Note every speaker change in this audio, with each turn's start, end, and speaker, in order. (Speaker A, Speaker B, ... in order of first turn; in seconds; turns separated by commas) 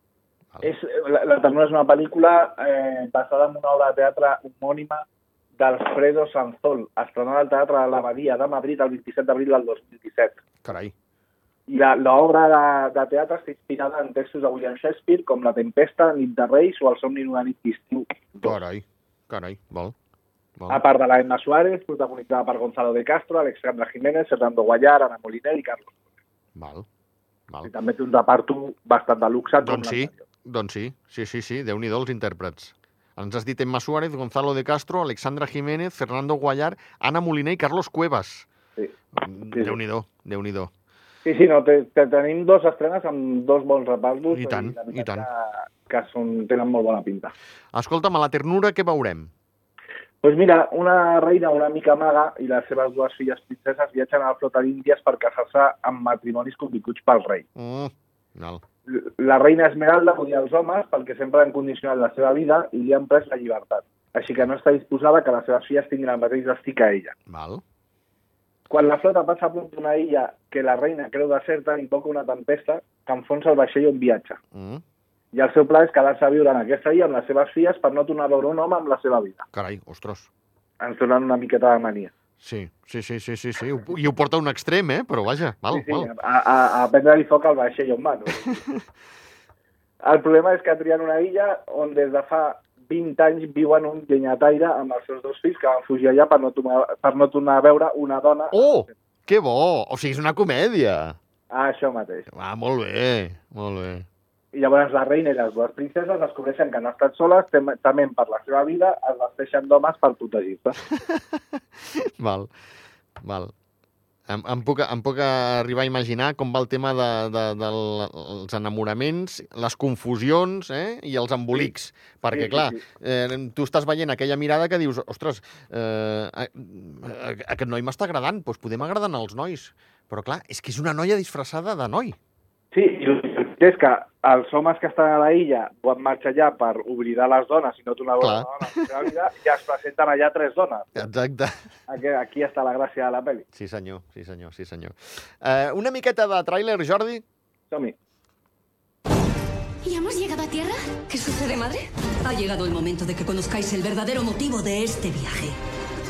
Speaker A: 0.6-5.0, Speaker A: 5.6-10.4, Speaker B: 10.6-10.9, Speaker A: 11.7-18.6, Speaker B: 18.4-19.9, Speaker A: 20.7-25.9, Speaker B: 26.6-26.9, Speaker A: 27.6-30.2, Speaker B: 29.6-38.5, Speaker B: 39.2-40.7, Speaker A: 39.5-39.8, Speaker A: 41.2-47.3, Speaker B: 44.3-45.3, Speaker B: 47.7-49.3, Speaker A: 50.2-57.5, Speaker B: 57.5-58.6, Speaker A: 58.9-67.1, Speaker B: 67.3-67.6, Speaker A: 68.7-74.4, Speaker B: 74.5-74.8, Speaker A: 75.3-79.5, Speaker B: 79.5-80.3, Speaker A: 80.8-82.1, Speaker B: 82.4-86.1, Speaker A: 85.7-88.6, Speaker A: 90.0-98.9, Speaker B: 98.5-101.2, Speaker A: 101.5-102.3, Speaker B: 102.3-104.0, Speaker A: 104.5-110.8, Speaker B: 110.9-112.5, Speaker B: 113.2-113.5, Speaker B: 114.3-132.2, Speaker A: 122.3-122.8, Speaker A: 132.7-141.1, Speaker B: 138.2-138.8, Speaker B: 140.9-141.5, Speaker A: 141.9-143.4, Speaker B: 143.5-147.2, Speaker C: 151.1-155.6